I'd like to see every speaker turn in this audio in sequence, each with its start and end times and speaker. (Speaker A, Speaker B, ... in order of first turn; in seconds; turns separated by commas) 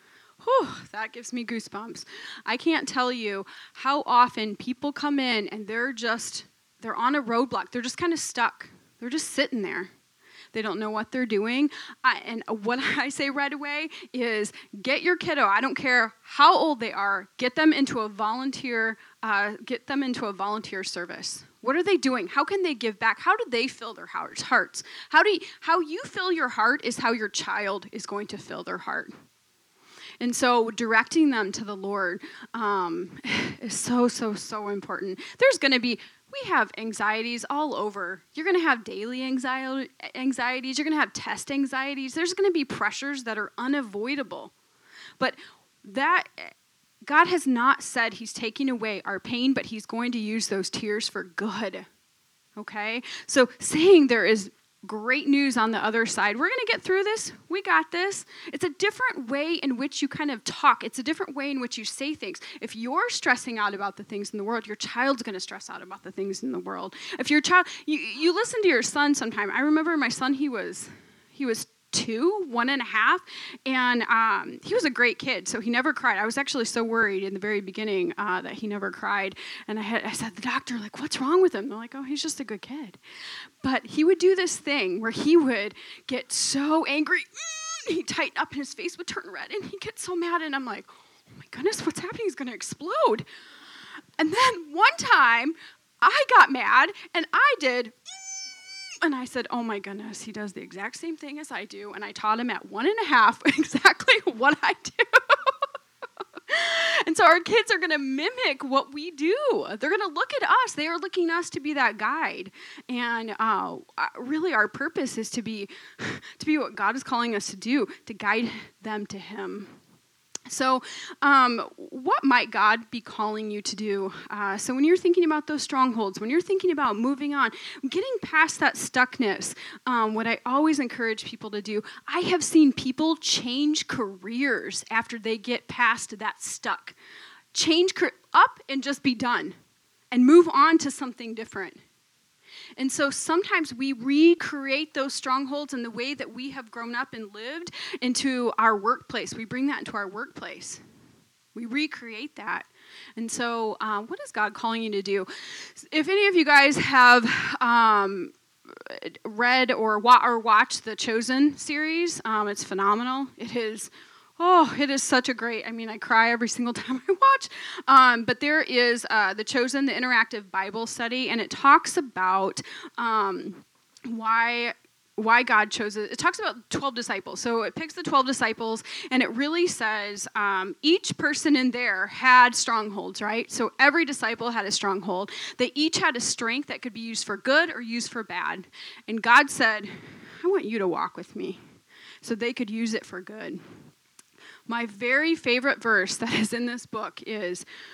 Speaker A: 0.4-9.9, Speaker A: 10.5-29.1, Speaker A: 30.2-44.5, Speaker A: 45.2-46.5, Speaker A: 47.0-51.9, Speaker A: 52.6-83.0, Speaker A: 83.6-93.3, Speaker A: 94.2-98.5, Speaker A: 99.0-105.5, Speaker A: 106.5-119.8, Speaker A: 120.5-137.0, Speaker A: 137.5-139.6, Speaker A: 140.1-141.8, Speaker A: 142.8-150.8, Speaker A: 151.6-191.6, Speaker A: 192.2-193.6, Speaker A: 194.7-197.7